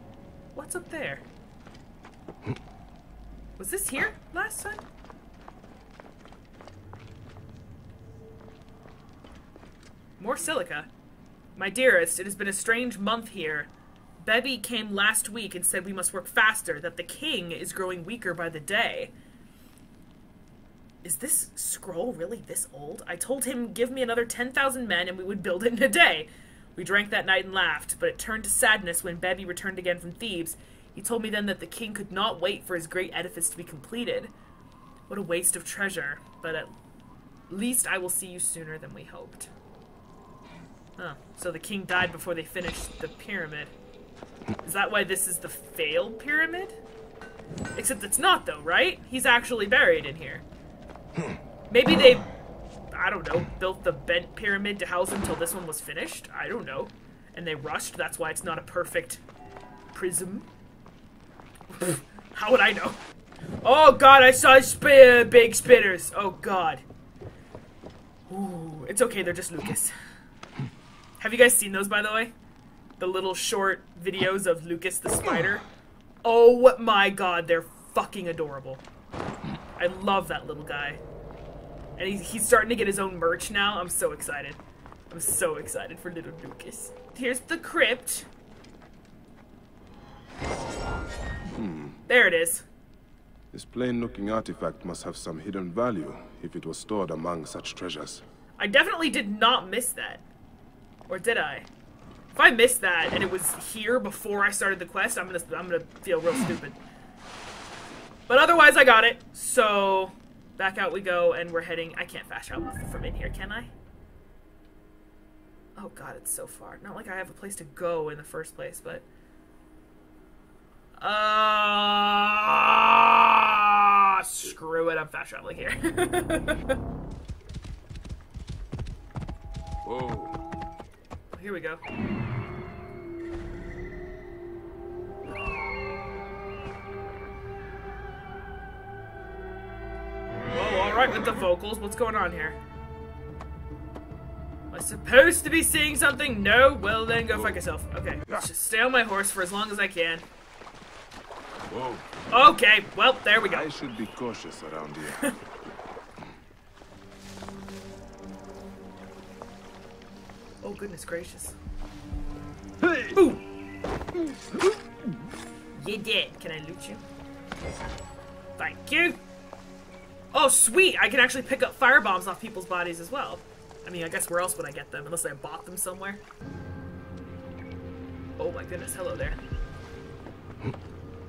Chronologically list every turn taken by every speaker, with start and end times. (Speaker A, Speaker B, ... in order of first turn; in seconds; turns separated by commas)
Speaker A: 0.5-1.2, Speaker A: 3.6-4.8, Speaker A: 10.2-10.9, Speaker A: 11.6-13.7, Speaker A: 14.2-19.1, Speaker A: 21.0-34.3, Speaker A: 35.1-36.7, Speaker A: 37.5-39.5, Speaker A: 41.0-43.7, Speaker A: 44.6-46.8, Speaker A: 47.8-50.4, Speaker A: 51.7-52.3, Speaker A: 52.9-59.2, Speaker A: 59.9-60.5, Speaker A: 61.7-63.0, Speaker A: 63.6-66.8, Speaker A: 68.3-69.9, Speaker A: 71.2-72.3, Speaker A: 73.0-75.6, Speaker A: 76.2-78.8, Speaker A: 79.8-81.0, Speaker A: 82.0-88.3, Speaker B: 91.5-92.0, Speaker A: 92.1-92.7, Speaker B: 93.5-98.2, Speaker A: 98.6-100.2, Speaker A: 101.1-101.7, Speaker A: 102.3-106.8, Speaker A: 108.3-113.7, Speaker A: 115.8-119.0, Speaker A: 121.0-126.8, Speaker B: 129.8-130.4, Speaker A: 131.3-131.8, Speaker A: 140.5-142.6, Speaker A: 144.7-150.2, Speaker B: 147.3-147.6, Speaker B: 151.7-152.1, Speaker A: 152.3-153.7, Speaker B: 153.4-155.3, Speaker A: 160.6-161.6, Speaker A: 163.1-163.4, Speaker A: 165.7-167.0, Speaker A: 168.6-169.2, Speaker A: 170.3-176.2, Speaker A: 178.4-179.4